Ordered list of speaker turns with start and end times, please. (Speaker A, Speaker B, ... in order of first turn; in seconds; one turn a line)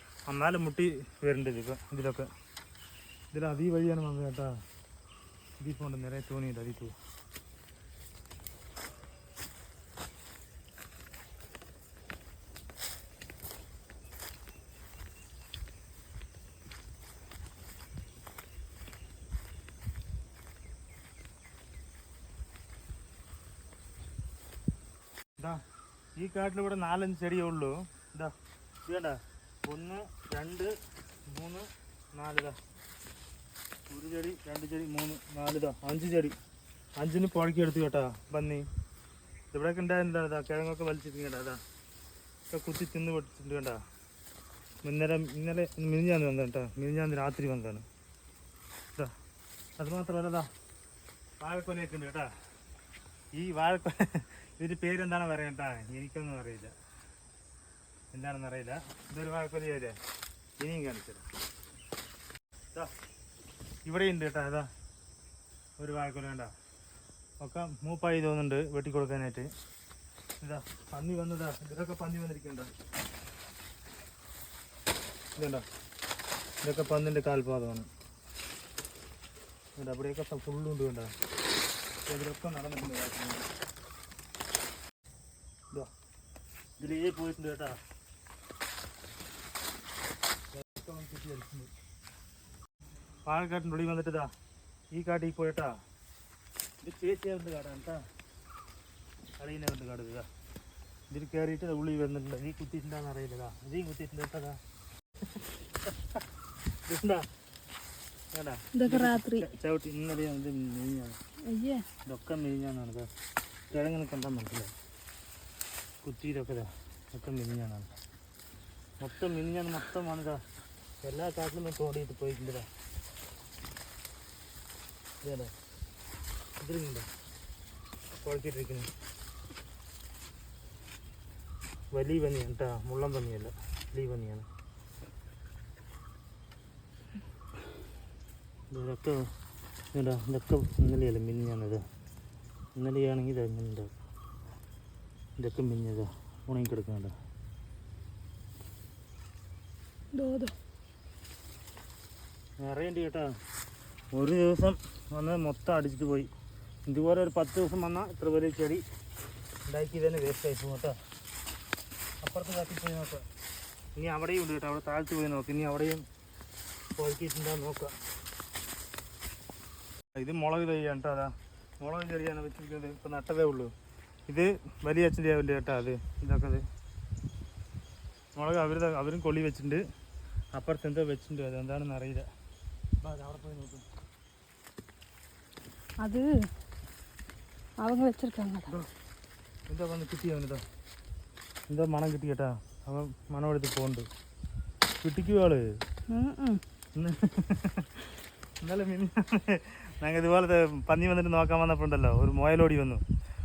Speaker A: 0.3-2.3
Speaker A: 3.3-4.5
Speaker A: 5.6-6.9
Speaker A: 26.2-28.3
Speaker A: 28.9-30.7
Speaker A: 31.3-32.6
Speaker A: 33.9-36.4
Speaker A: 37.0-38.6
Speaker A: 39.5-41.6
Speaker A: 42.5-43.8
Speaker A: 44.8-47.8
Speaker A: 49.8-50.5
Speaker A: 51.4-52.3
Speaker A: 53.4-56.7
Speaker A: 58.1-60.0
Speaker A: 60.6-61.2
Speaker A: 63.9-64.7
Speaker A: 65.8-66.5
Speaker A: 67.4-69.5
Speaker A: 70.4-72.7
Speaker A: 75.4-75.6
Speaker A: 76.6-77.9
Speaker A: 79.8-81.1
Speaker A: 82.1-83.5
Speaker A: 86.8-87.8
Speaker A: 90.5-91.7
Speaker A: 93.3-94.3
Speaker A: 94.9-95.7
Speaker A: 96.8-98.0
Speaker A: 99.4-100.3
Speaker A: 101.1-104.6
Speaker A: 105.3-106.2
Speaker A: 106.9-107.2
Speaker A: 108.3-111.2
Speaker B: 108.8-109.5
Speaker B: 111.5-111.8
Speaker A: 112.1-113.1
Speaker A: 113.7-114.7
Speaker A: 116.0-117.9
Speaker A: 119.0-120.4
Speaker A: 121.0-122.7
Speaker A: 125.2-125.5
Speaker A: 126.6-127.1
Speaker A: 128.2-128.9
Speaker A: 131.9-134.5
Speaker A: 138.7-139.2
Speaker A: 139.9-141.8
Speaker A: 142.8-143.9
Speaker A: 145.4-147.1
Speaker B: 150.1-150.5
Speaker A: 152.6-153.3
Speaker A: 154.1-156.3
Speaker A: 156.9-158.8
Speaker A: 159.7-161.0
Speaker A: 162.2-163.2
Speaker A: 164.0-166.0
Speaker A: 167.0-168.0
Speaker A: 170.1-173.7
Speaker A: 174.3-176.6
Speaker A: 178.3-179.8
Speaker A: 180.6-182.3
Speaker A: 183.0-183.8
Speaker B: 186.0-186.3
Speaker B: 187.8-188.7
Speaker A: 189.7-190.6
Speaker A: 191.7-194.1
Speaker A: 195.0-195.7
Speaker B: 196.1-196.6
Speaker A: 197.0-198.0
Speaker A: 198.6-203.0